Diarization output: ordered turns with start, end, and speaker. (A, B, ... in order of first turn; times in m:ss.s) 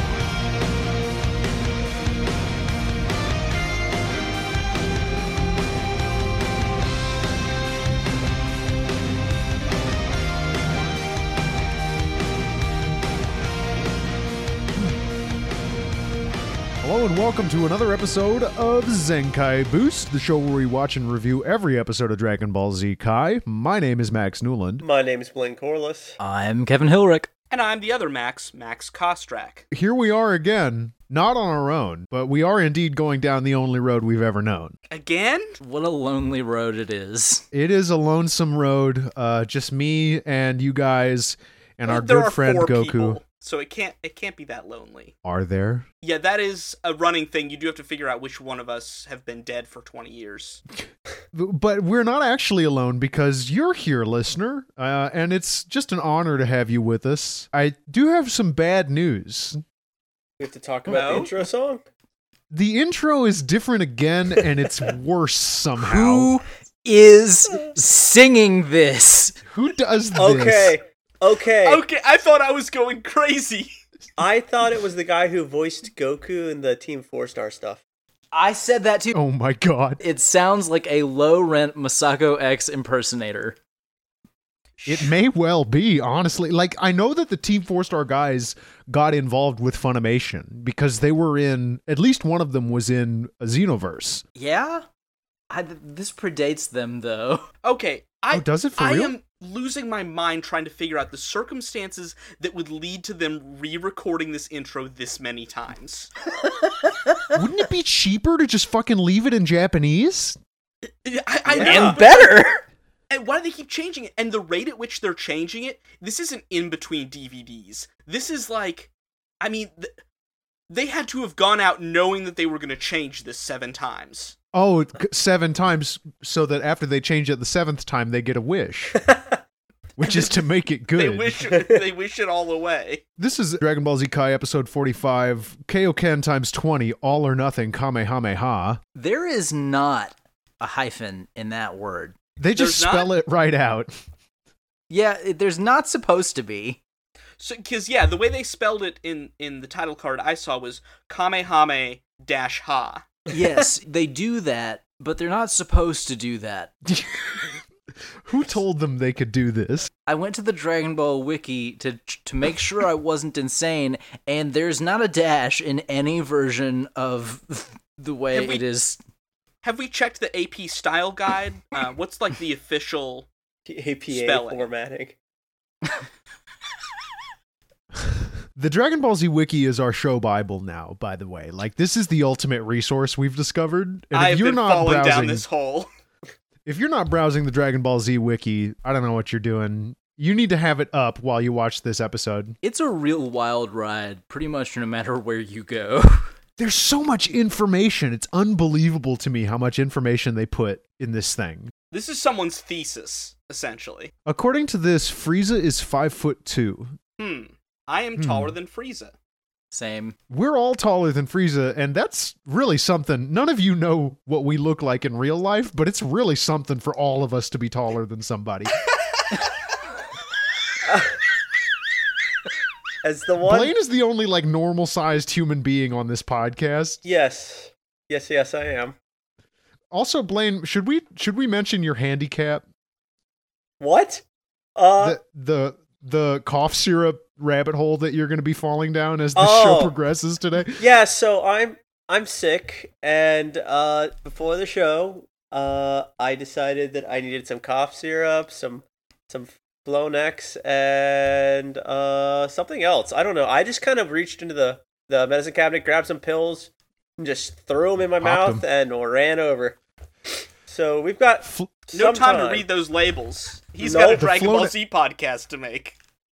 0:16.8-0:24.8 A
0:24.8-0:26.2 B
0:26.2-0:27.3 C
0:27.5-0:29.6 D
0:29.7-0:34.8 A
0:34.9-0:35.6 D
0:35.6-0:37.4 C
0:37.5-0:43.2 A
0:41.9-0:45.1 D
0:45.2-0:45.9 A
0:46.0-0:50.6 D
0:51.3-0:59.6 A
1:00.4-1:01.8 B
1:02.5-1:06.3 A
1:05.8-1:09.4 C
1:09.5-1:10.8 A
1:10.2-1:11.8 B
1:11.6-1:13.7 D
1:14.2-1:17.8 B
1:18.3-1:19.2 C
1:19.1-1:20.0 A
1:20.0-1:23.6 C
1:24.8-1:34.2 A
1:34.4-1:34.8 C
1:35.5-1:37.5 C
1:37.6-1:46.1 D
1:38.3-1:39.2 A
1:46.6-1:47.3 C
1:47.3-1:50.4 A
1:51.0-1:52.3 D
1:51.5-1:52.0 B
1:51.6-1:52.6 C
1:53.1-1:59.9 D
2:00.7-2:04.4 D
2:04.5-2:09.0 A
2:09.0-2:09.4 B
2:10.0-2:11.4 A
2:10.9-2:13.0 D
2:11.5-2:11.8 B
2:13.2-2:18.8 A
2:18.9-2:22.2 C
2:22.4-2:23.9 A
2:22.6-2:23.1 D
2:24.9-2:26.8 C
2:27.4-2:33.1 D
2:33.3-2:36.7 C
2:36.8-2:37.6 A
2:38.2-2:39.9 A
2:40.1-2:49.0 C
2:48.3-2:48.6 D
2:49.6-2:53.3 D
2:53.7-2:55.2 B
2:54.1-2:54.7 D
2:58.5-3:05.4 A
3:04.1-3:05.9 D
3:06.7-3:12.6 A
3:12.6-3:16.3 C
3:16.6-3:21.7 A
3:21.9-3:24.1 D
3:24.2-3:26.9 A
3:27.2-3:29.1 D
3:28.2-3:28.6 A
3:29.7-3:30.2 C
3:30.3-3:38.7 A
3:40.8-3:41.2 B
3:43.0-3:43.7 B
3:43.4-3:47.0 A
3:47.0-3:49.0 B
3:49.9-3:52.6 A
3:53.8-3:54.2 B
3:54.8-3:55.2 B
3:55.0-4:00.8 A
3:59.4-3:59.9 B
4:00.8-4:19.8 B
4:18.2-4:18.6 A
4:20.6-4:22.7 B
4:21.4-4:21.7 A
4:21.9-4:26.0 D
4:23.8-4:24.2 B
4:24.1-4:24.7 A